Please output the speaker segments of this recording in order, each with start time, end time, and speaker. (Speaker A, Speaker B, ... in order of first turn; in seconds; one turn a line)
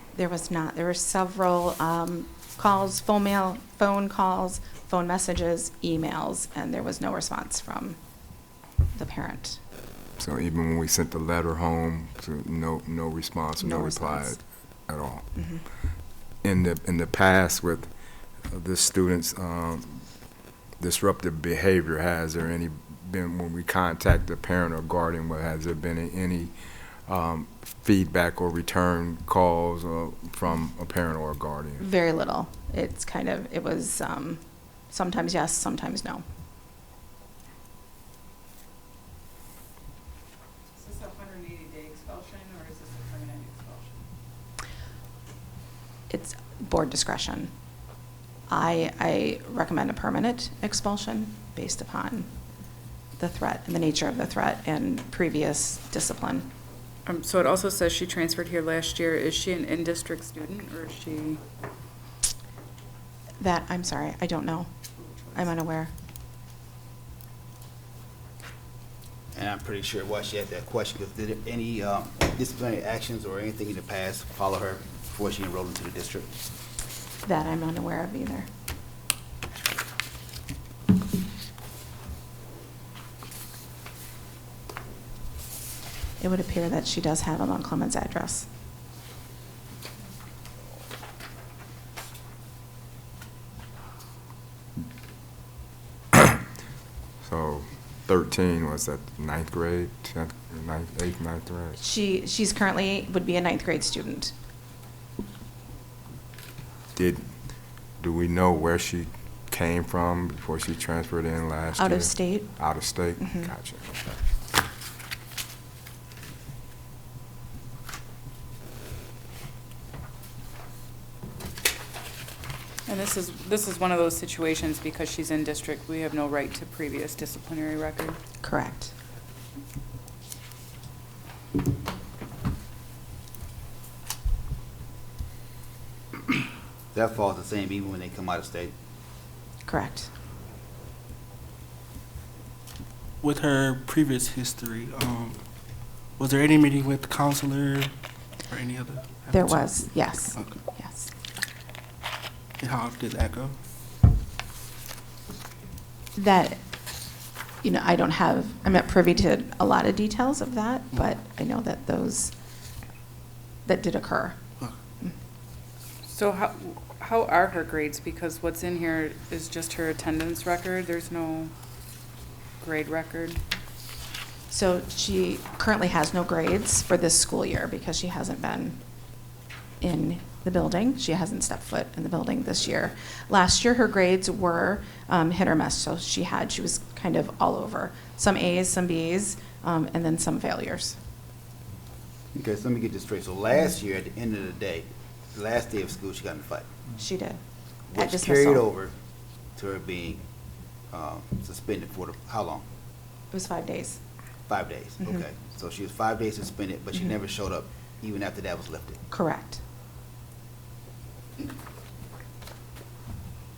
Speaker A: 0.1-8.0
Speaker A: 8.9-9.6
Speaker B: 10.2-15.2
Speaker A: 13.6-14.4
Speaker A: 15.3-15.6
Speaker B: 16.4-17.9
Speaker B: 18.5-20.1
Speaker B: 20.8-26.5
Speaker B: 27.1-31.8
Speaker A: 31.8-36.2
Speaker C: 40.7-44.0
Speaker A: 46.1-47.5
Speaker A: 48.5-52.3
Speaker A: 53.2-56.5
Speaker C: 57.0-61.4
Speaker A: 63.4-64.7
Speaker A: 65.3-65.9
Speaker D: 69.3-76.3
Speaker A: 77.2-78.5
Speaker A: 86.2-88.5
Speaker B: 97.2-101.8
Speaker A: 101.8-104.3
Speaker B: 106.9-107.3
Speaker B: 108.0-114.2
Speaker A: 111.8-112.6
Speaker A: 113.2-113.5
Speaker C: 122.8-128.2
Speaker A: 128.4-128.9
Speaker D: 136.9-138.7
Speaker A: 139.7-140.1
Speaker E: 143.2-145.4
Speaker E: 146.2-147.9
Speaker E: 148.5-150.6
Speaker A: 149.3-151.1
Speaker E: 152.6-153.6
Speaker A: 156.1-156.6
Speaker A: 157.6-162.3
Speaker A: 163.7-164.4
Speaker C: 166.0-171.5
Speaker C: 172.6-173.4
Speaker A: 174.5-178.8
Speaker A: 179.8-191.0
Speaker D: 192.3-196.7
Speaker A: 197.0-197.4
Speaker D: 197.9-198.9
Speaker A: 197.9-198.7
Speaker D: 199.6-200.2
Speaker D: 200.9-202.6
Speaker A: 203.3-204.0
Speaker D: 204.5-209.0
Speaker A: 209.1-209.6